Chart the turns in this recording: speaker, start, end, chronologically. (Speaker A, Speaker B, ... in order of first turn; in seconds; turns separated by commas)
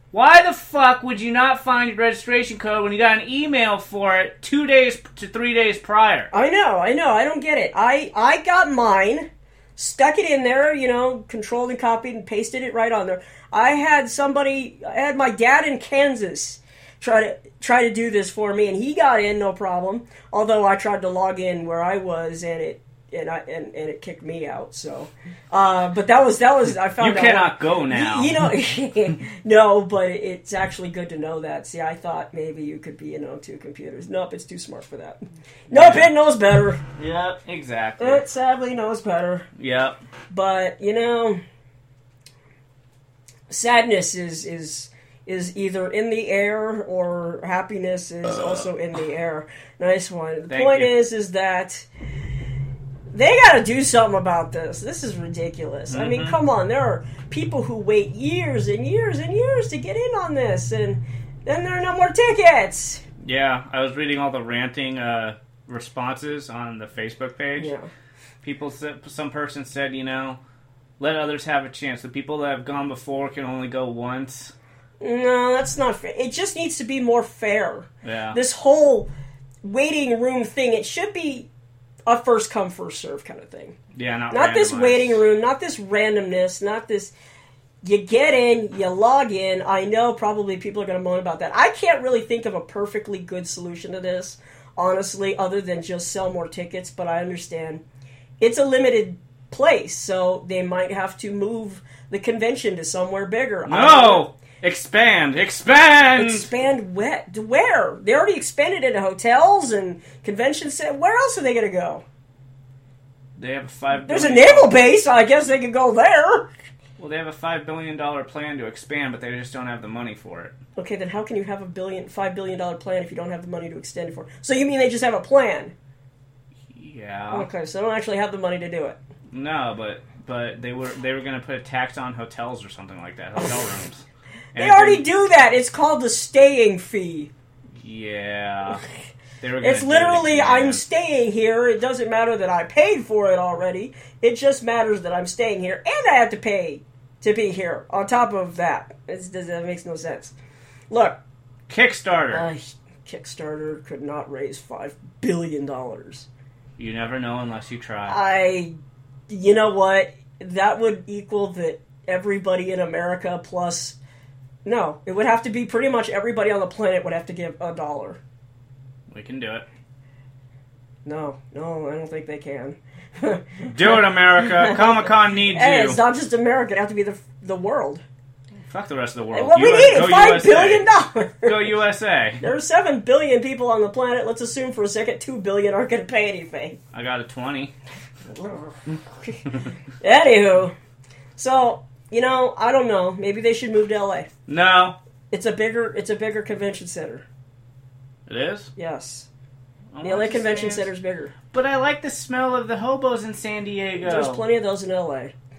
Speaker A: 0.1-6.3, Speaker B: 6.3-36.8, Speaker A: 27.0-28.4, Speaker A: 35.7-36.1, Speaker A: 37.0-38.2, Speaker B: 38.0-39.5, Speaker A: 39.6-40.0, Speaker B: 40.3-41.4, Speaker B: 43.5-51.9, Speaker A: 50.5-50.9, Speaker B: 53.1-63.0, Speaker A: 55.9-56.4, Speaker A: 63.2-67.7, Speaker B: 67.5-67.9, Speaker A: 68.4-70.4, Speaker A: 71.0-74.5, Speaker B: 75.0-79.1, Speaker A: 78.0-78.4, Speaker B: 79.6-81.5, Speaker B: 82.1-83.8, Speaker A: 83.9-85.2, Speaker B: 84.3-87.1, Speaker B: 87.8-97.8, Speaker B: 98.4-104.3, Speaker A: 103.7-106.5, Speaker B: 106.1-112.0, Speaker A: 113.4-114.8, Speaker B: 114.0-116.5, Speaker A: 117.0-120.5, Speaker B: 120.8-125.7, Speaker A: 126.7-127.5, Speaker B: 127.3-129.0, Speaker A: 129.3-135.0, Speaker B: 134.6-137.3, Speaker A: 137.8-138.8, Speaker A: 139.4-140.8, Speaker B: 139.6-150.3, Speaker B: 150.9-151.2, Speaker A: 151.7-152.4, Speaker B: 152.3-156.3, Speaker A: 156.8-158.2, Speaker B: 158.1-158.7, Speaker B: 159.3-164.0, Speaker B: 164.6-168.2, Speaker A: 169.1-169.7, Speaker B: 171.0-178.0, Speaker A: 173.7-176.0, Speaker A: 178.7-180.9, Speaker B: 179.3-181.8, Speaker A: 181.4-182.4, Speaker B: 182.4-186.8, Speaker A: 186.9-187.7, Speaker B: 188.2-189.4, Speaker B: 190.0-190.7, Speaker B: 191.3-194.3, Speaker A: 194.5-195.0, Speaker B: 195.3-197.2, Speaker A: 198.3-198.7, Speaker B: 198.8-199.3, Speaker A: 199.9-200.9, Speaker B: 200.0-201.3, Speaker A: 201.5-204.4, Speaker B: 204.0-205.3